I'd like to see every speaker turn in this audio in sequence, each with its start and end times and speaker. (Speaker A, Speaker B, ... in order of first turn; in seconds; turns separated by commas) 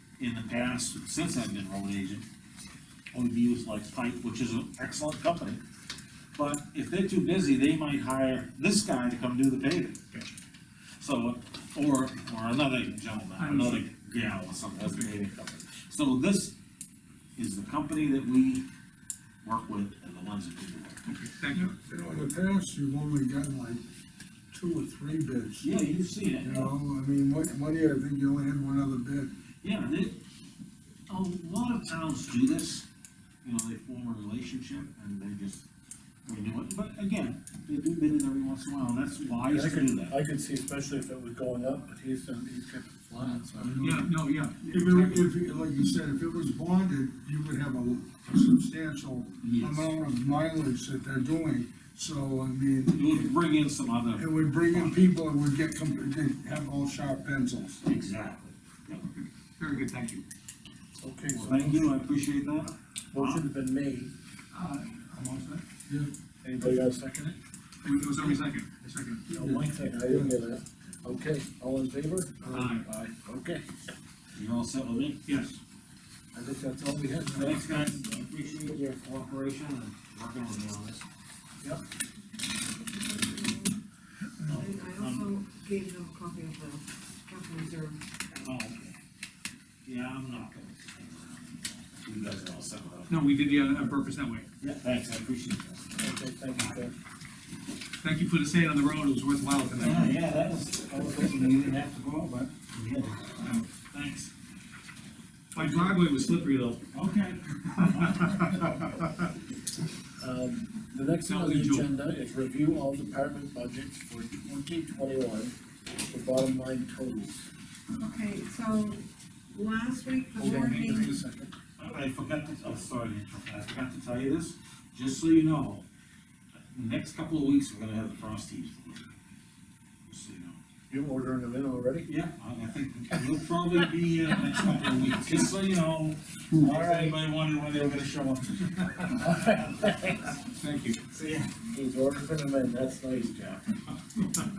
Speaker A: 0.2-2.2, Speaker A: 3.1-5.6, Speaker A: 6.3-10.1, Speaker A: 11.0-16.5, Speaker B: 13.4-13.9, Speaker A: 17.4-18.6, Speaker A: 19.4-21.0, Speaker B: 21.1-21.7, Speaker C: 21.5-23.8, Speaker C: 24.5-25.7, Speaker A: 25.6-26.7, Speaker C: 26.4-29.3, Speaker A: 29.6-30.2, Speaker A: 31.1-32.9, Speaker A: 33.4-35.7, Speaker A: 36.2-40.1, Speaker D: 39.4-43.8, Speaker C: 43.6-44.2, Speaker B: 43.8-45.4, Speaker C: 44.7-53.3, Speaker A: 49.4-49.9, Speaker A: 52.9-55.1, Speaker C: 54.1-57.8, Speaker A: 57.8-59.0, Speaker B: 59.0-60.2, Speaker D: 61.0-61.9, Speaker A: 61.3-63.4, Speaker D: 63.1-64.1, Speaker B: 64.5-65.6, Speaker D: 66.4-67.4, Speaker B: 67.8-69.3, Speaker C: 69.3-70.4, Speaker D: 69.3-73.6, Speaker B: 72.5-72.9, Speaker A: 74.3-75.2, Speaker B: 75.2-75.6, Speaker D: 76.3-77.7, Speaker A: 77.3-81.0, Speaker E: 82.6-83.8, Speaker A: 84.4-85.3, Speaker E: 84.5-88.4, Speaker A: 88.4-89.0, Speaker A: 89.8-93.6, Speaker B: 93.1-94.5, Speaker A: 94.6-96.7, Speaker D: 96.0-96.9, Speaker B: 98.0-100.1, Speaker A: 99.8-104.3, Speaker D: 100.9-101.5, Speaker B: 105.5-106.8, Speaker A: 106.9-108.7, Speaker D: 110.2-115.5, Speaker B: 111.2-111.9, Speaker D: 116.1-117.4, Speaker E: 117.9-121.2, Speaker D: 120.4-121.5, Speaker A: 121.8-125.8, Speaker A: 126.7-129.1, Speaker A: 130.1-130.6, Speaker D: 130.9-132.1, Speaker A: 132.1-140.3, Speaker D: 136.6-137.2, Speaker D: 139.2-140.1, Speaker B: 140.5-141.0, Speaker A: 141.1-141.5, Speaker D: 141.6-143.8